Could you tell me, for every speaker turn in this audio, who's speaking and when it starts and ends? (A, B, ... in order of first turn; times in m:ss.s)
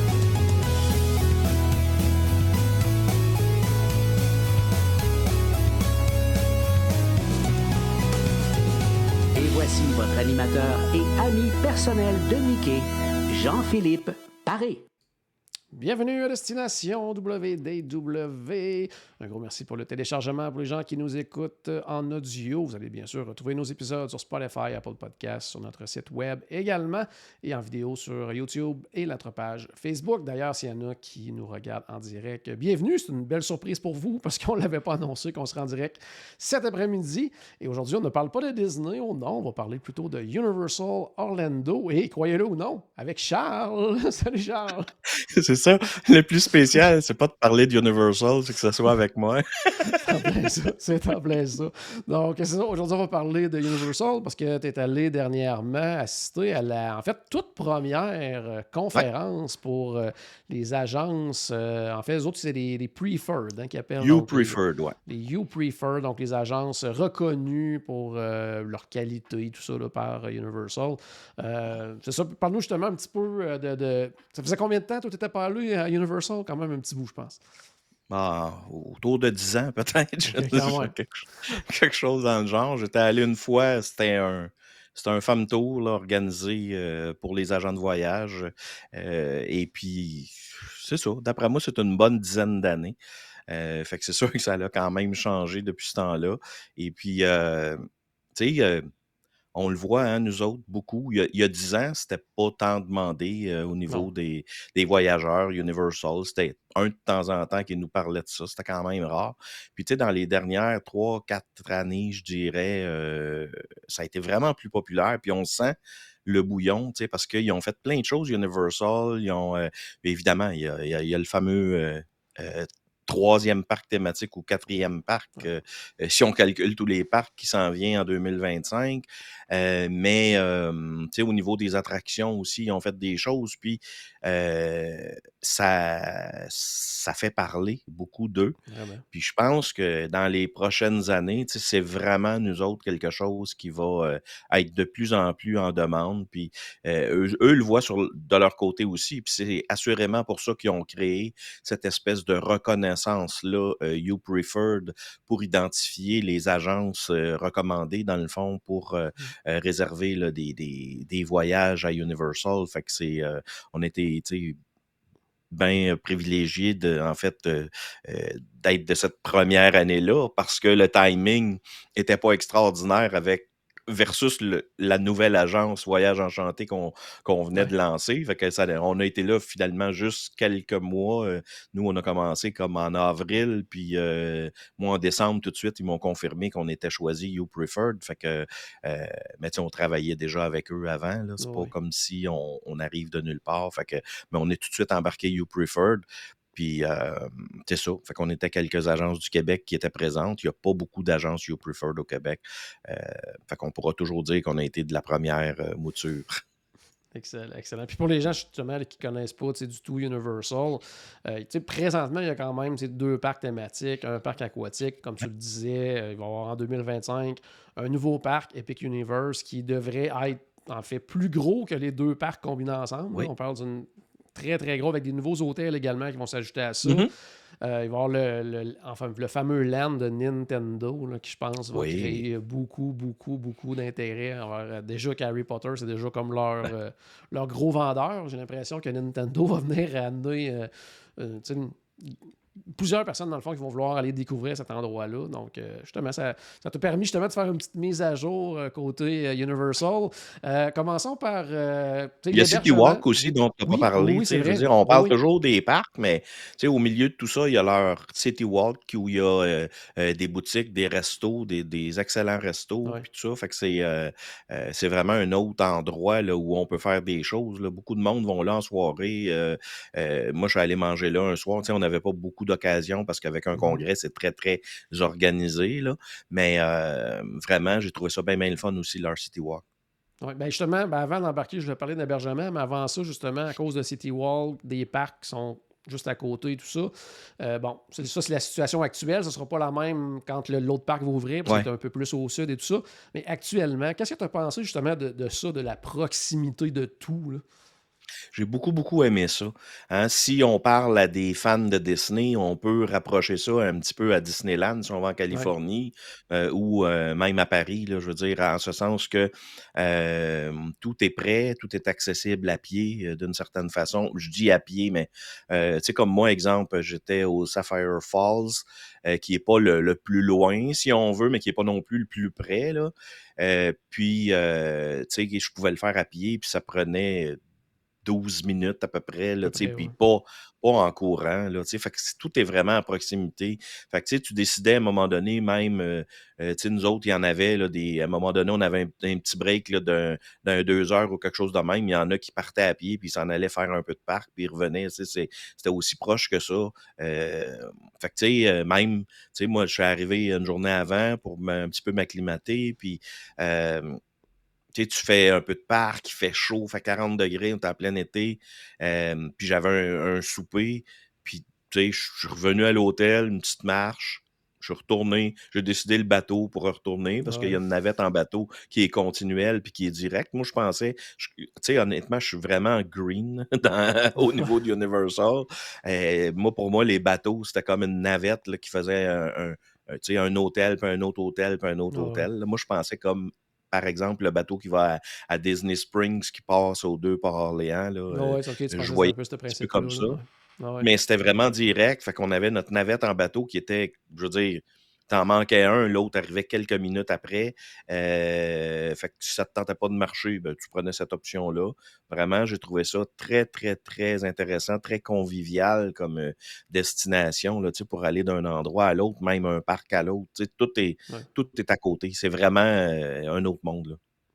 0:09.3-0:14.8 A
0:15.7-0:44.9 B
0:45.1-0:50.0 C
0:50.0-1:17.4 B
1:04.0-1:05.0 C
1:18.1-1:33.0 C
1:20.3-1:20.9 B
1:33.5-1:37.8 C
1:38.3-1:38.8 C
1:39.5-2:18.6 C
2:18.7-2:19.0 B
2:19.1-2:44.6 C
2:45.5-3:26.4 C
3:11.4-3:11.7 B
3:27.1-3:47.1 B
3:46.8-3:47.1 C
3:47.6-4:15.2 B
3:51.7-3:52.2 C
4:12.3-4:39.6 C
4:33.5-4:33.8 B
4:40.2-4:57.4 B
4:58.3-5:27.4 C
5:28.0-5:54.0 C
5:29.4-5:29.9 B
5:54.7-6:30.2 C
6:07.2-6:07.6 B
6:21.9-6:22.3 B
6:28.1-6:30.9 B
6:30.8-6:54.0 C